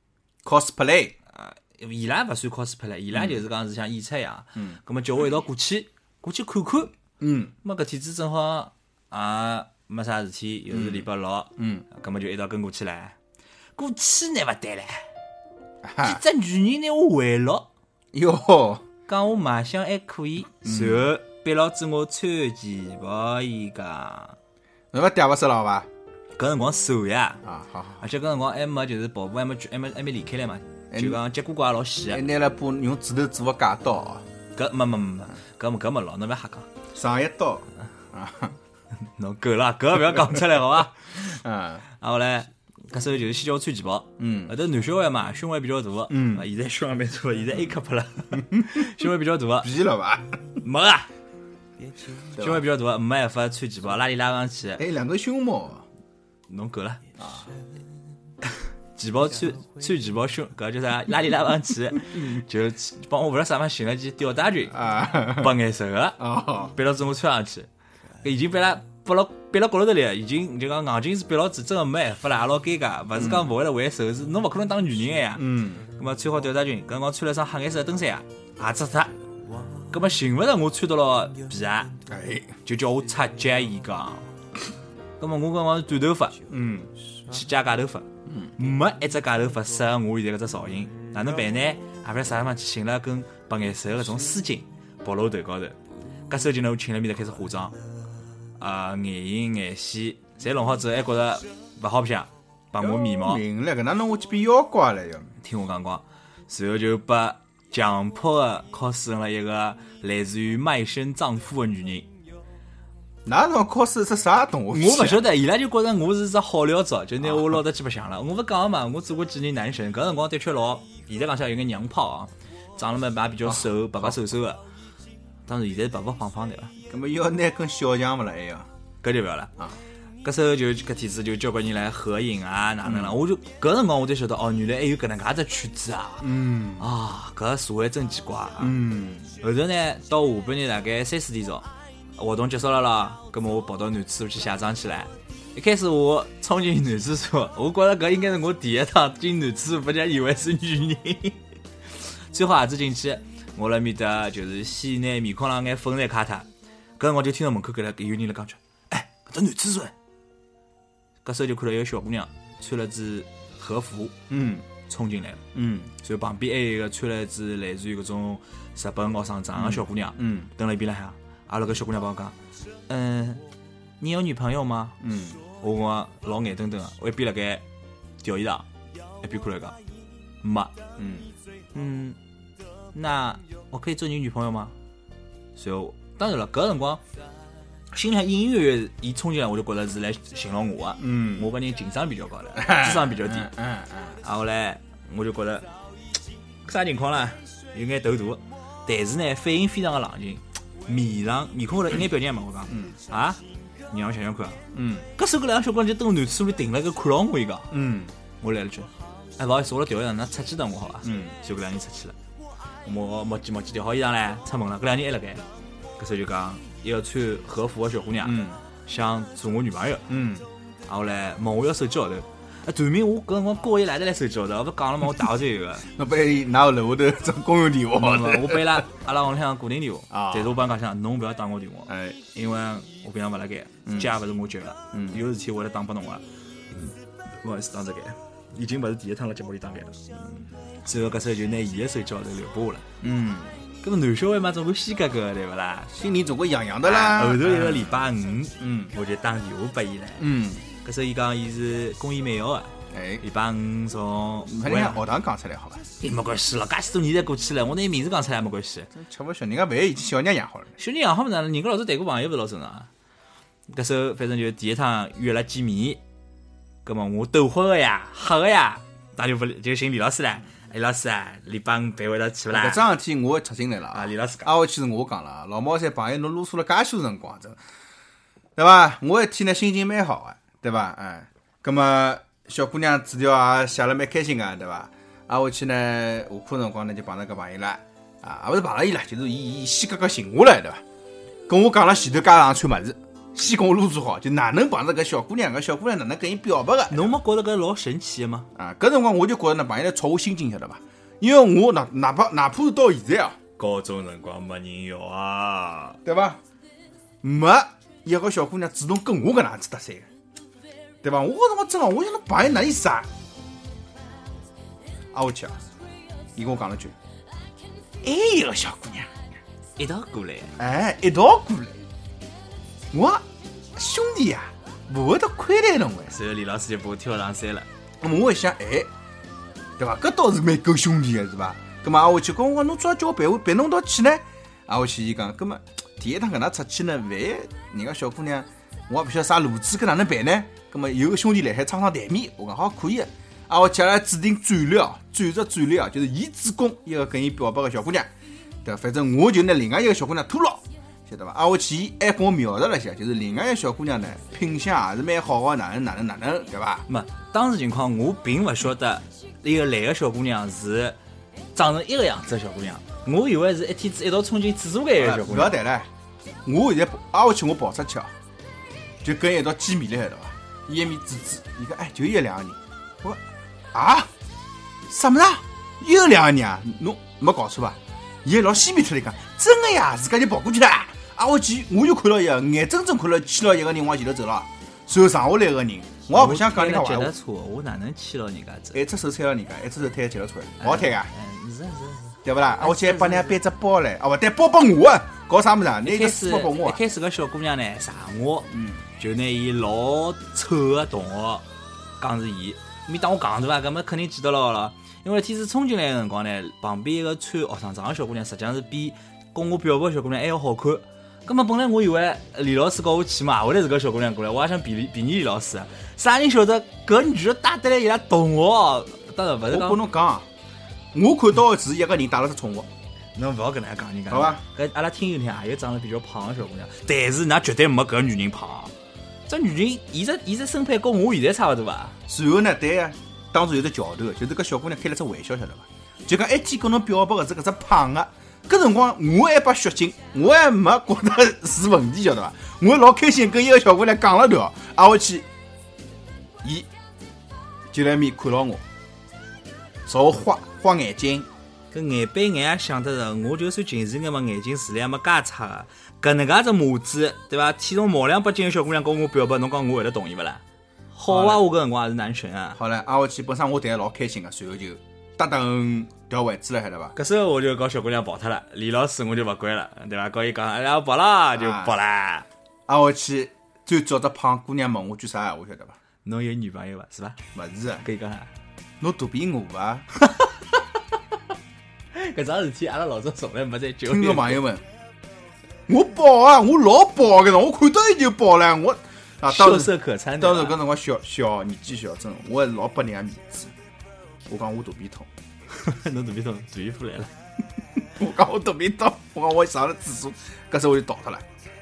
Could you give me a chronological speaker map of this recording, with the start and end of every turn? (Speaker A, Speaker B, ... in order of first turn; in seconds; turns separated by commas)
Speaker A: 0.4-1.1, Speaker B: 1.3-6.9, Speaker A: 3.1-3.4, Speaker A: 7.2-7.5, Speaker B: 7.6-13.2, Speaker A: 10.7-11.1, Speaker A: 11.6-11.8, Speaker B: 13.8-15.1, Speaker A: 15.8-16.2, Speaker B: 16.0-17.7, Speaker A: 18.1-18.8, Speaker B: 19.1-24.4, Speaker A: 20.6-21.1, Speaker A: 24.9-25.9, Speaker B: 26.4-27.4, Speaker A: 27.4-28.0, Speaker B: 28.0-32.2, Speaker A: 30.9-31.2, Speaker A: 32.1-34.2, Speaker B: 34.5-36.7, Speaker A: 36.9-38.6, Speaker B: 39.0-41.4, Speaker A: 41.2-41.8, Speaker B: 41.9-49.7, Speaker A: 44.2-44.5, Speaker A: 46.1-46.5, Speaker A: 48.5-48.9, Speaker A: 49.6-50.4, Speaker B: 50.6-51.1, Speaker A: 52.4-52.6, Speaker B: 52.4-54.8, Speaker A: 54.8-55.9, Speaker B: 56.5-57.0, Speaker A: 57.2-57.5, Speaker B: 59.0-66.2, Speaker A: 64.7-65.5, Speaker A: 66.2-66.7, Speaker B: 66.7-67.7, Speaker B: 68.2-79.1, Speaker A: 73.2-73.5, Speaker A: 75.4-75.8, Speaker B: 79.9-81.9, Speaker A: 82.1-82.6, Speaker B: 82.6-84.3, Speaker B: 85.2-86.4, Speaker A: 86.5-86.9, Speaker B: 87.3-97.8, Speaker A: 88.3-88.5, Speaker B: 98.6-103.4, Speaker A: 102.8-105.3, Speaker B: 105.4-112.1, Speaker A: 113.2-115.2, Speaker B: 114.7-124.6, Speaker A: 123.5-124.2, Speaker B: 125.5-126.7, Speaker A: 126.9-128.7, Speaker B: 129.0-129.5, Speaker B: 130.2-138.8, Speaker A: 132.8-133.2, Speaker A: 136.2-136.9, Speaker A: 138.6-139.4, Speaker B: 139.4-151.4, Speaker B: 152.3-159.9, Speaker B: 161.2-164.2, Speaker A: 164.3-164.7, Speaker B: 164.9-165.4, Speaker A: 165.5-165.9, Speaker B: 166.0-172.4, Speaker A: 169.6-170.5, Speaker B: 172.9-173.4, Speaker B: 174.0-175.0, Speaker A: 175.0-175.4, Speaker B: 175.6-177.6, Speaker B: 178.2-178.7, Speaker B: 179.2-179.8, Speaker B: 180.4-180.7, Speaker A: 181.0-181.3, Speaker B: 181.7-182.2, Speaker B: 182.9-184.8, Speaker B: 185.6-187.0, Speaker B: 187.9-193.5, Speaker A: 191.0-191.5, Speaker A: 192.6-194.2, Speaker B: 194.2-195.7, Speaker B: 196.6-204.6, Speaker A: 204.7-205.1, Speaker B: 205.2-207.7, Speaker A: 207.7-208.1, Speaker B: 208.4-212.2, Speaker A: 211.0-211.3, Speaker B: 212.8-215.4, Speaker B: 216.0-220.1, Speaker A: 218.2-218.6, Speaker A: 220.1-220.5, Speaker B: 220.9-225.9, Speaker A: 225.9-228.8, Speaker B: 227.9-236.2, Speaker A: 230.1-230.6, Speaker A: 231.9-232.2, Speaker A: 233.9-234.1, Speaker A: 234.9-235.2, Speaker B: 237.4-240.0, Speaker A: 240.2-240.4, Speaker B: 240.8-242.9, Speaker A: 243.0-243.6, Speaker B: 243.8-245.9, Speaker A: 245.9-248.0, Speaker B: 246.8-255.0, Speaker A: 248.6-248.9, Speaker A: 250.2-250.6, Speaker A: 252.9-253.2, Speaker A: 254.5-255.8, Speaker B: 256.0-258.9, Speaker A: 258.9-260.8, Speaker B: 260.8-262.9, Speaker B: 263.7-266.0, Speaker B: 266.9-272.8, Speaker A: 272.5-277.6, Speaker B: 273.9-274.5, Speaker A: 278.6-290.8, Speaker A: 291.5-297.1, Speaker B: 296.9-298.5, Speaker A: 298.6-303.4, Speaker B: 303.6-306.0, Speaker A: 306.1-306.4, Speaker A: 307.2-310.1, Speaker A: 311.0-313.1, Speaker A: 315.1-315.6, Speaker A: 316.4-316.9, Speaker A: 318.0-319.1, Speaker B: 319.8-320.6, Speaker A: 320.6-321.8, Speaker A: 322.9-326.2, Speaker B: 326.1-327.7, Speaker A: 328.0-328.9, Speaker A: 329.8-348.1, Speaker A: 348.6-356.9, Speaker B: 356.9-361.0, Speaker B: 361.6-365.6, Speaker A: 365.0-365.9, Speaker A: 366.4-368.1, Speaker A: 369.0-373.2, Speaker A: 373.7-374.1, Speaker A: 374.9-387.1, Speaker B: 386.1-388.8, Speaker A: 388.7-391.1, Speaker B: 390.6-393.4, Speaker A: 392.2-396.8, Speaker B: 395.8-401.4, Speaker A: 398.5-398.8, Speaker B: 402.0-419.9, Speaker A: 419.5-420.3, Speaker A: 420.9-422.7, Speaker B: 423.1-428.7, Speaker A: 424.1-424.4, Speaker B: 429.3-432.0, Speaker A: 432.1-445.3, Speaker A: 446.4-446.7, Speaker A: 447.7-448.6, Speaker A: 449.9-451.3, Speaker B: 451.7-460.4, Speaker B: 460.9-462.6, Speaker A: 461.1-461.4, Speaker A: 462.6-466.9, Speaker B: 467.0-472.3, Speaker A: 471.3-471.7, Speaker A: 472.7-475.8, Speaker B: 476.1-477.2, Speaker A: 477.4-477.8, Speaker B: 477.8-478.3, Speaker A: 478.8-479.9, Speaker B: 480.0-480.4, Speaker B: 481.9-484.4, Speaker A: 483.9-484.6, Speaker A: 485.7-493.5, Speaker B: 489.3-490.6, Speaker A: 494.3-495.1, Speaker B: 495.5-497.1, Speaker A: 497.9-501.2